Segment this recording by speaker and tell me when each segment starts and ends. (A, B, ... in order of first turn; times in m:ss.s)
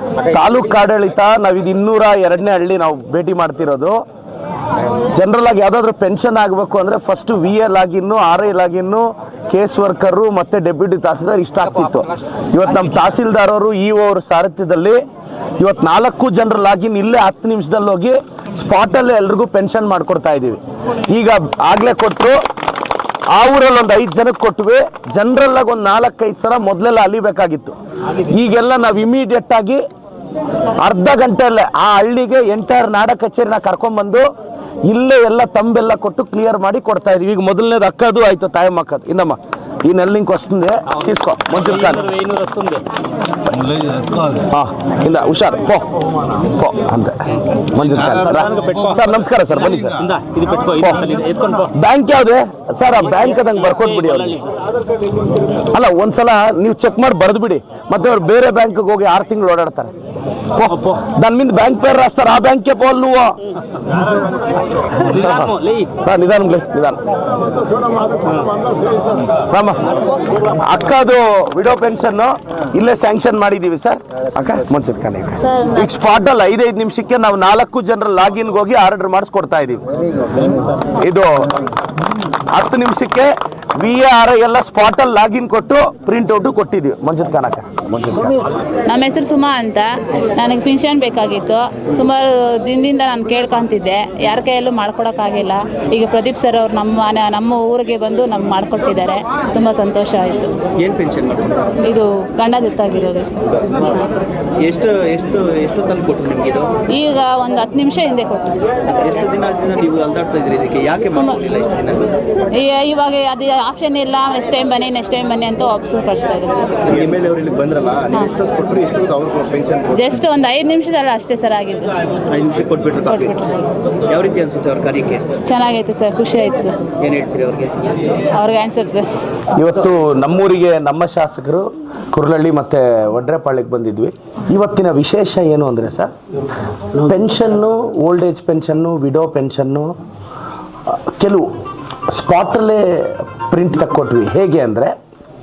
0:00.2-0:04.0 A
0:05.1-0:15.0 A
0:15.6-0:22.4 A
0:23.3-0:29.8 A
0:30.8-0:34.3 A
0:34.9-0:42.2 A
0:41.6-0:42.9 B
0:43.5-0:50.2 A
0:43.9-0:44.2 B
0:48.2-0:49.0 B
0:49.9-0:51.7 B
0:50.7-0:51.1 A
0:51.7-0:54.5 A
0:53.2-0:54.5 B
0:55.7-0:59.9 A
1:00.5-1:03.4 A
1:04.9-1:07.0 A
1:05.0-1:05.9 B
1:08.2-1:08.6 B
1:09.3-1:19.9 A
1:15.4-1:15.9 C
1:20.5-1:21.5 A
1:22.5-1:28.5 A
1:28.9-1:40.6 C
1:40.8-1:41.8 D
1:41.8-1:44.0 C
1:44.6-1:46.8 D
1:46.9-1:48.7 C
1:48.8-1:52.2 D
1:51.1-1:51.4 C
1:52.5-1:56.8 C
1:56.8-1:58.1 D
1:58.1-1:58.6 C
1:58.7-1:59.8 B
1:59.8-2:01.9 C
2:02.3-2:05.3 D
2:03.1-2:03.4 C
2:05.4-2:06.8 C
2:07.0-2:08.2 D
2:08.3-2:09.1 C
2:09.6-2:16.1 A
2:16.9-2:20.0 A
2:20.9-2:21.5 A
2:22.1-2:24.9 A